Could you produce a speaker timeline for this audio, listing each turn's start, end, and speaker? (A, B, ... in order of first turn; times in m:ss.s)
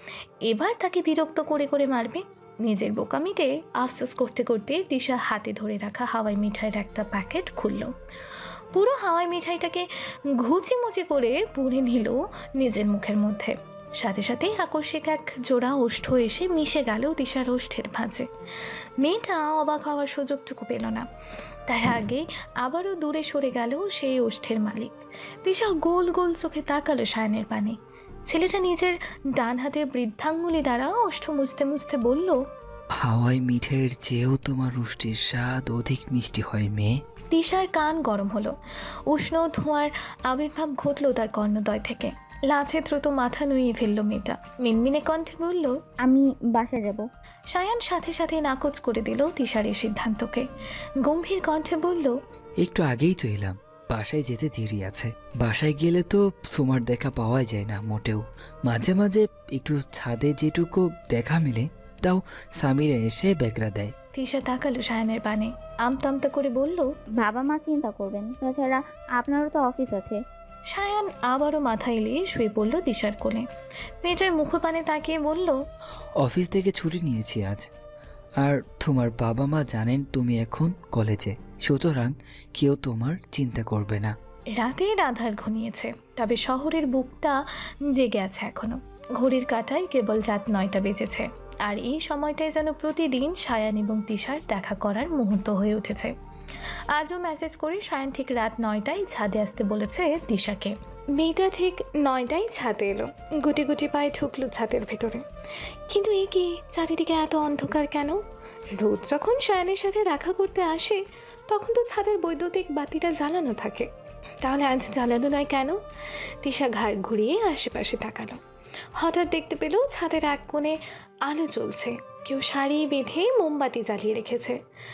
0:00.5-0:07.9 A
0:08.7-0:18.3 A
0:19.0-0:21.1 A
0:21.7-0:32.4 A
0:33.0-0:37.0 B
0:37.3-0:38.6 A
0:39.1-0:45.8 A
0:46.0-0:47.1 C
0:47.5-0:50.5 A
0:51.0-0:52.2 A
0:52.6-1:03.9 B
1:04.2-1:06.9 A
1:07.2-1:10.2 C
1:10.7-1:13.5 A
1:14.0-1:15.6 A
1:16.2-1:17.7 B
1:18.4-1:24.2 B
1:24.6-1:36.2 A
1:36.9-1:45.2 A
1:45.9-1:48.2 A
1:48.8-1:53.9 A
1:54.4-1:55.8 A
1:56.4-1:58.4 A
1:59.0-2:04.6 A